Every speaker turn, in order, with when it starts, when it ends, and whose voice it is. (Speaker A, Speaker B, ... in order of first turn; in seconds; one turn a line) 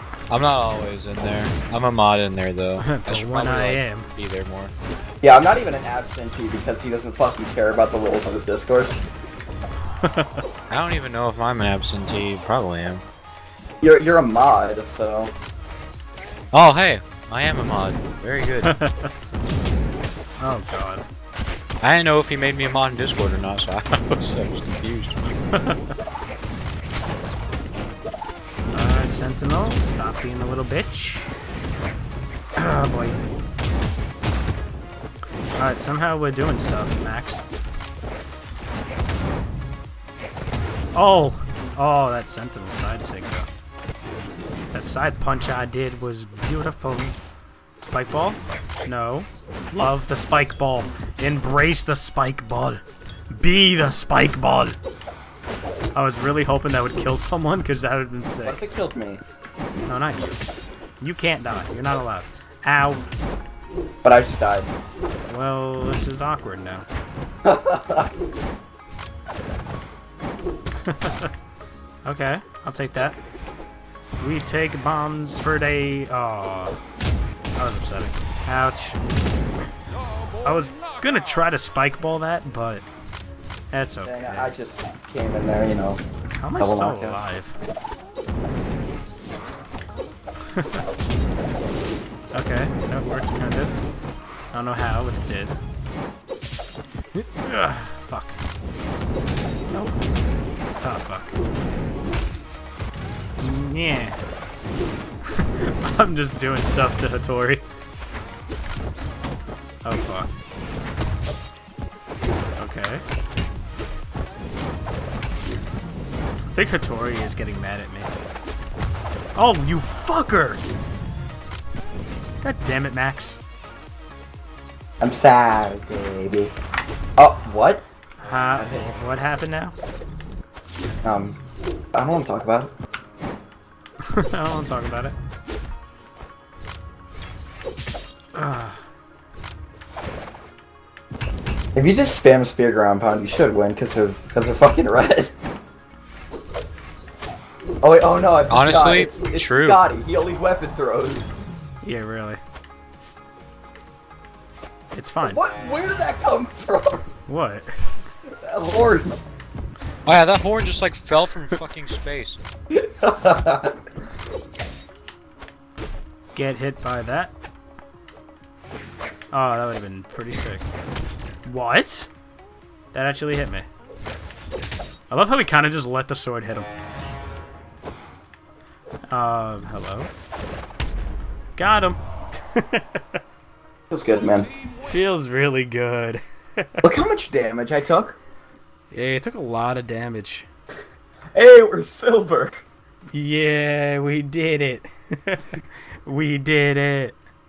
Speaker A: 0.3-4.7
Speaker B: 2.8-4.1
Speaker C: 5.2-9.0
Speaker B: 10.0-10.4
Speaker A: 10.7-13.0
Speaker C: 13.8-15.3
Speaker A: 16.5-18.7
Speaker B: 18.6-19.1
Speaker B: 20.4-21.1
Speaker A: 21.8-25.2
Speaker B: 25.5-26.0
Speaker B: 28.7-31.3
Speaker B: 32.6-33.2
Speaker B: 35.6-37.4
Speaker B: 40.9-43.5
Speaker B: 44.7-47.2
Speaker B: 47.8-54.8
Speaker B: 56.0-58.6
Speaker C: 58.5-59.2
Speaker B: 59.9-60.4
Speaker B: 61.0-63.0
Speaker C: 64.0-64.7
Speaker B: 65.3-66.9
Speaker C: 67.4-68.1
Speaker B: 70.9-71.3
Speaker B: 72.0-73.2
Speaker B: 74.2-76.8
Speaker B: 77.6-79.0
Speaker B: 80.4-82.8
Speaker B: 83.7-84.5
Speaker C: 84.0-86.0
Speaker B: 86.3-87.6
Speaker C: 86.6-87.2
Speaker B: 90.5-90.8
Speaker B: 92.3-93.8
Speaker B: 94.5-95.5
Speaker B: 97.2-98.4
Speaker B: 99.7-100.0
Speaker B: 100.8-101.3
Speaker B: 103.4-104.2
Speaker B: 105.3-107.6
Speaker B: 109.8-110.3
Speaker B: 112.6-113.0
Speaker B: 116.5-118.1
Speaker B: 119.4-120.6
Speaker B: 122.4-123.4
Speaker C: 125.0-126.5
Speaker C: 127.2-127.8
Speaker B: 128.2-129.7
Speaker C: 128.6-128.9
Speaker C: 131.0-131.4
Speaker C: 131.9-132.7
Speaker B: 134.1-135.2
Speaker B: 138.3-138.8
Speaker C: 141.7-145.3
Speaker C: 147.8-151.3
Speaker A: 148.5-149.8
Speaker B: 151.8-152.4
Speaker B: 154.9-155.4
Speaker C: 155.2-157.1
Speaker B: 157.3-157.7
Speaker C: 158.2-159.2
Speaker A: 160.1-162.4
Speaker C: 162.7-163.8
Speaker B: 166.3-167.3
Speaker B: 169.3-170.7
Speaker B: 171.4-172.1
Speaker B: 172.9-173.7
Speaker B: 175.1-176.7
Speaker B: 179.1-180.1
Speaker B: 181.6-183.2
Speaker C: 183.9-184.5
Speaker B: 184.8-186.8
Speaker C: 186.8-188.2
Speaker B: 188.9-190.5
Speaker C: 191.3-192.6
Speaker B: 193.1-197.2